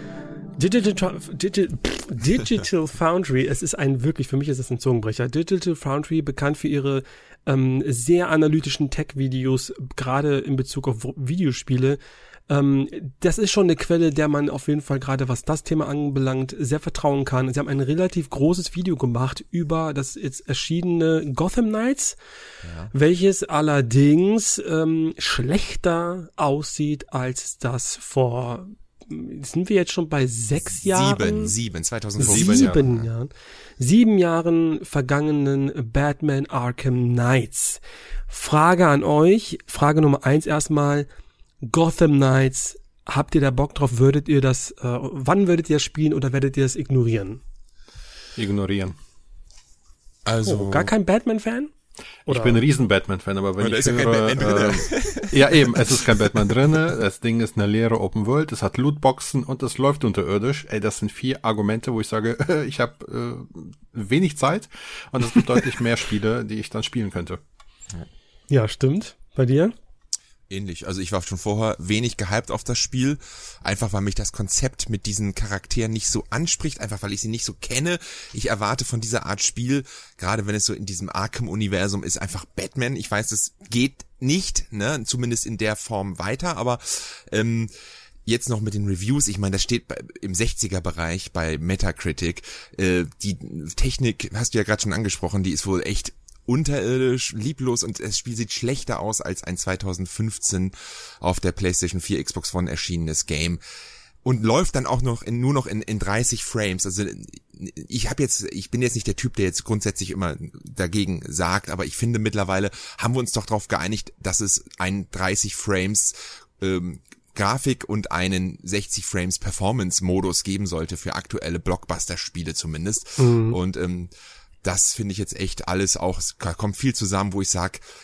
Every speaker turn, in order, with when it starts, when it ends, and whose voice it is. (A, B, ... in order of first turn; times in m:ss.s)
0:00.6-0:22.2 A
0:22.6-0:22.9 B
0:22.9-0:31.5 A
0:30.7-0:33.1 B
0:32.2-0:41.1 A
0:32.2-0:32.8 C
0:41.6-0:47.4 A
0:48.4-0:49.0 C
0:50.2-0:50.9 B
0:50.4-0:51.7 A
0:52.3-1:07.4 C
0:52.3-0:52.6 A
0:53.6-0:56.5 B
1:08.5-1:09.7 A
1:10.5-1:27.7 B
1:28.2-1:43.6 B
1:44.2-2:04.1 B
2:03.2-2:03.6 A
2:04.6-2:07.8 B